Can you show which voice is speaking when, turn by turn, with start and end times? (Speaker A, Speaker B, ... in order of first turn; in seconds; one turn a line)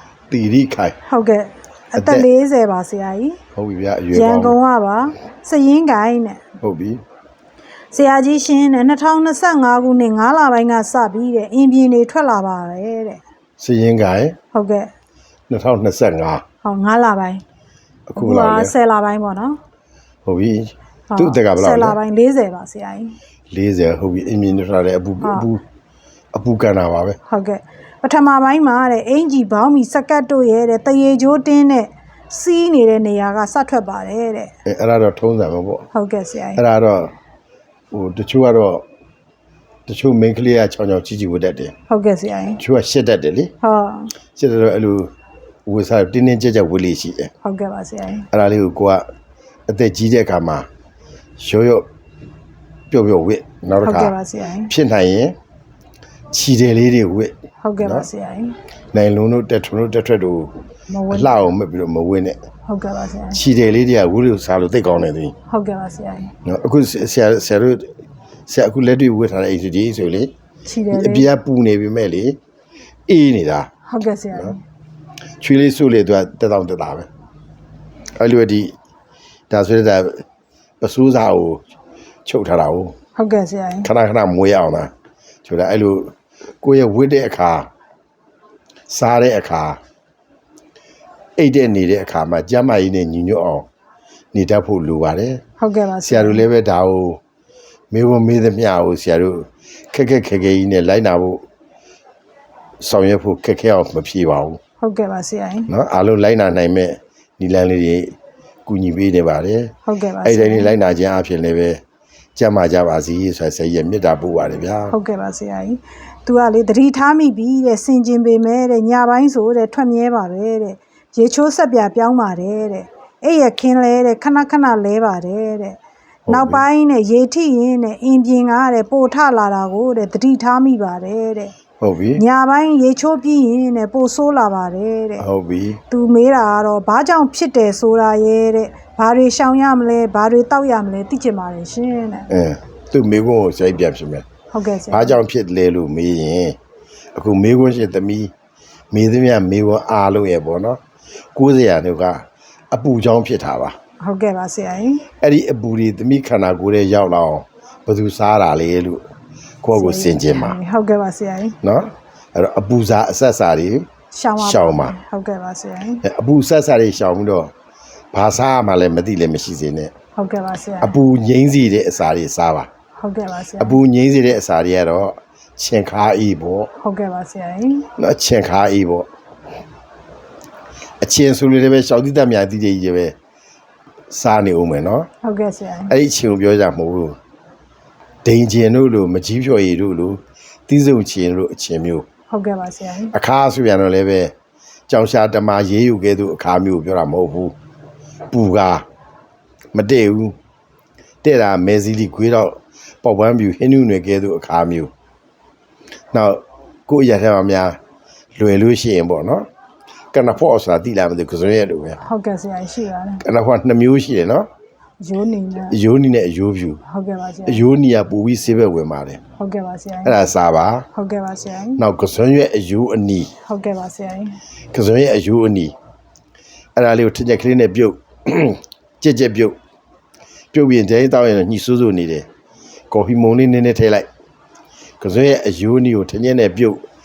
Speaker A: 0.3-1.0
Speaker B: 1.0-3.4
Speaker A: 1.9-2.3
Speaker A: 3.5-4.6
Speaker B: 4.1-6.4
Speaker A: 6.6-7.0
Speaker B: 7.9-13.2
Speaker A: 13.6-14.4
Speaker B: 14.5-14.9
Speaker A: 15.5-16.4
Speaker B: 16.6-17.4
Speaker A: 18.1-18.7
Speaker B: 18.2-19.6
Speaker A: 20.2-22.0
Speaker B: 21.1-23.1
Speaker A: 23.5-25.6
Speaker A: 26.3-27.2
Speaker B: 27.3-34.5
Speaker A: 34.6-35.9
Speaker B: 35.9-36.6
Speaker A: 36.6-37.1
Speaker A: 37.9-38.8
Speaker A: 39.9-41.7
Speaker B: 41.9-42.6
Speaker A: 42.6-43.5
Speaker B: 43.6-44.1
Speaker A: 44.4-45.1
Speaker A: 45.6-47.3
Speaker B: 47.4-48.2
Speaker A: 48.3-49.0
Speaker A: 49.7-50.6
Speaker A: 51.4-51.9
Speaker A: 52.9-54.1
Speaker B: 53.8-54.7
Speaker A: 54.7-55.3
Speaker A: 56.3-58.1
Speaker B: 57.6-58.5
Speaker A: 58.9-60.6
Speaker B: 60.9-61.5
Speaker A: 61.1-62.4
Speaker B: 62.7-63.4
Speaker A: 63.3-65.3
Speaker B: 65.5-66.3
Speaker A: 66.4-67.9
Speaker A: 68.5-70.3
Speaker B: 70.6-71.3
Speaker A: 70.9-72.4
Speaker A: 73.1-73.7
Speaker B: 73.9-74.6
Speaker A: 75.4-77.1
Speaker A: 78.2-78.7
Speaker A: 79.5-80.2
Speaker A: 80.8-81.6
Speaker A: 82.2-82.9
Speaker B: 83.2-83.9
Speaker A: 83.8-84.9
Speaker A: 85.4-87.7
Speaker A: 88.9-89.8
Speaker A: 91.4-93.7
Speaker A: 94.3-95.4
Speaker B: 95.6-96.4
Speaker A: 96.0-97.2
Speaker A: 97.9-101.4
Speaker A: 102.8-104.6
Speaker B: 104.8-105.7
Speaker A: 105.7-108.1
Speaker A: 108.7-111.8
Speaker B: 109.8-110.7
Speaker A: 112.3-114.9
Speaker B: 114.9-125.8
Speaker A: 126.2-126.6
Speaker B: 126.3-131.5
Speaker A: 131.8-132.2
Speaker B: 132.2-135.2
Speaker A: 135.2-135.8
Speaker B: 135.9-142.3
Speaker A: 142.3-144.2
Speaker B: 144.5-145.2
Speaker A: 144.9-146.6
Speaker A: 147.1-148.3
Speaker A: 148.9-150.8
Speaker A: 151.3-153.7
Speaker B: 154.0-155.0
Speaker A: 155.2-159.0
Speaker A: 159.6-160.6
Speaker B: 159.7-161.6
Speaker A: 161.6-163.9
Speaker B: 164.1-166.0
Speaker A: 164.4-165.0
Speaker A: 166.0-167.5
Speaker A: 168.1-169.9
Speaker B: 170.2-170.9
Speaker A: 170.8-172.7
Speaker B: 173.0-173.8
Speaker A: 173.6-176.7
Speaker B: 176.8-177.8
Speaker A: 178.0-179.1
Speaker A: 181.0-183.1
Speaker A: 184.1-185.1
Speaker B: 185.2-185.9
Speaker A: 185.9-187.2
Speaker A: 188.2-192.1
Speaker B: 192.3-193.1
Speaker A: 193.1-194.3
Speaker A: 194.9-197.5
Speaker A: 198.3-198.8
Speaker A: 199.7-200.3
Speaker A: 201.2-204.9
Speaker A: 206.1-207.8
Speaker A: 208.3-209.5
Speaker A: 210.1-212.0
Speaker B: 212.0-213.2
Speaker A: 213.2-214.5
Speaker B: 215.0-215.8
Speaker A: 215.6-216.8
Speaker B: 216.8-217.6
Speaker A: 217.4-219.2
Speaker B: 219.4-220.2
Speaker A: 220.0-220.8
Speaker B: 220.9-221.8
Speaker A: 221.8-223.3
Speaker B: 223.4-224.4
Speaker A: 224.7-225.7
Speaker A: 226.8-229.6
Speaker A: 230.5-232.3
Speaker A: 232.9-234.1
Speaker A: 235.0-236.8